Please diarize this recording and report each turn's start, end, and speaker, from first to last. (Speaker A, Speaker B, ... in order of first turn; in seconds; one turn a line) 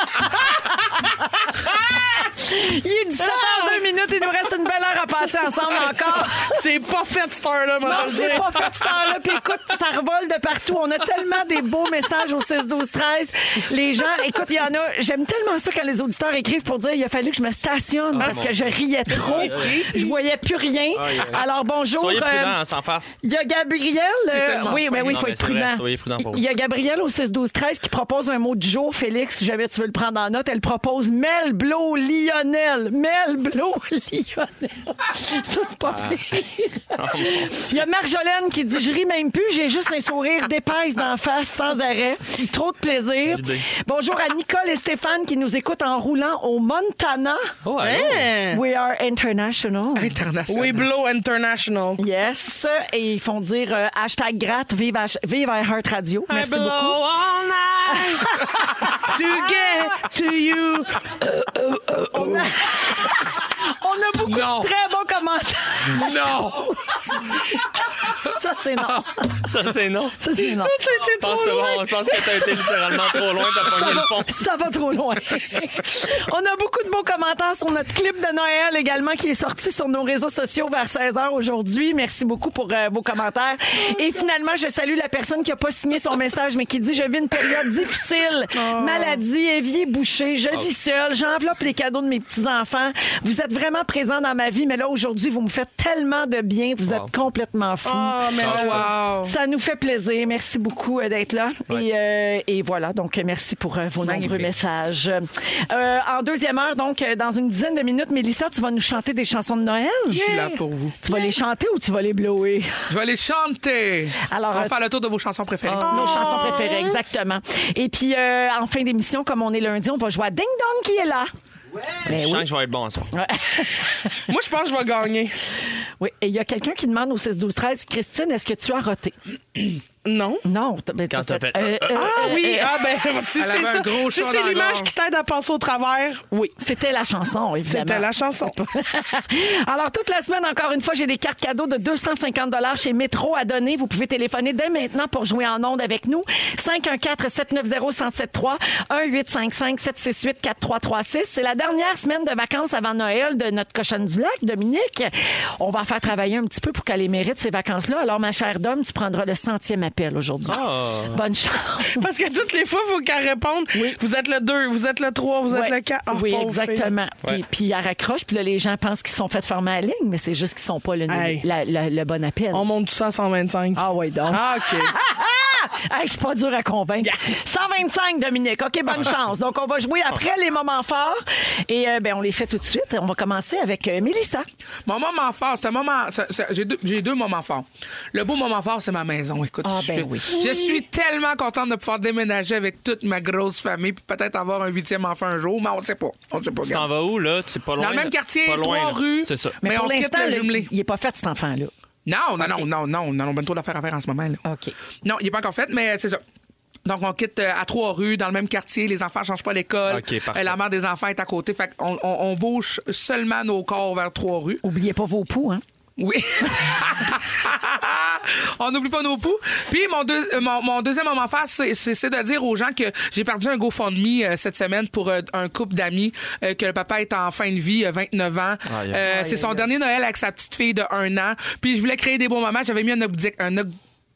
Speaker A: 2.1-6.5
Speaker B: 3.2-3.8
Speaker B: 5.7-8.8
Speaker A: 7.8-22.6
Speaker C: 18.1-19.8
Speaker B: 19.2-20.1
Speaker C: 20.9-23.1
Speaker A: 23.2-47.5
Speaker D: 24.3-25.2
Speaker C: 24.8-26.4
Speaker C: 35.9-36.4
Speaker C: 36.9-37.9
Speaker C: 43.2-43.6
Speaker C: 47.6-48.3
Speaker B: 47.8-48.6
Speaker A: 48.5-50.1
Speaker D: 50.0-50.9
Speaker B: 50.5-52.0
Speaker A: 52.0-57.0
Speaker C: 56.3-58.5
Speaker A: 57.9-59.2
Speaker B: 59.1-61.0
Speaker A: 62.0-66.7
Speaker D: 64.2-64.7
Speaker D: 65.9-66.9
Speaker A: 68.2-69.4
Speaker C: 69.3-70.2
Speaker A: 70.2-70.8
Speaker B: 70.6-72.4
Speaker C: 71.2-74.3
Speaker A: 73.5-110.2
Speaker B: 97.8-98.9
Speaker D: 98.4-99.3
Speaker C: 98.4-98.9
Speaker C: 104.2-104.5
Speaker D: 110.1-111.0
Speaker B: 110.2-110.5
Speaker A: 111.0-112.7
Speaker D: 112.9-116.0
Speaker A: 114.3-114.7
Speaker C: 115.7-116.4
Speaker A: 115.8-121.3
Speaker B: 115.9-117.0
Speaker C: 122.0-123.1
Speaker A: 122.0-122.5
Speaker A: 123.1-124.1
Speaker B: 124.3-125.3
Speaker A: 126.0-129.1
Speaker B: 130.0-130.4
Speaker A: 130.4-132.7
Speaker C: 131.1-132.1
Speaker B: 131.9-136.5
Speaker D: 133.4-134.9
Speaker A: 136.6-162.0
Speaker B: 137.7-138.6
Speaker C: 160.4-161.2
Speaker B: 161.9-166.9
Speaker A: 163.7-164.0
Speaker A: 165.5-172.7
Speaker B: 171.1-171.4
Speaker B: 172.5-174.9
Speaker A: 173.8-184.4
Speaker D: 184.8-196.9
Speaker A: 189.6-190.8
Speaker C: 196.6-199.6
Speaker D: 197.8-200.7
Speaker A: 199.6-201.7
Speaker D: 202.1-204.4
Speaker A: 202.4-202.6
Speaker A: 204.4-204.7
Speaker D: 205.0-206.2
Speaker D: 206.8-214.6
Speaker C: 209.9-210.6
Speaker A: 214.6-215.6
Speaker D: 216.0-233.7
Speaker C: 228.7-229.1
Speaker A: 229.0-229.7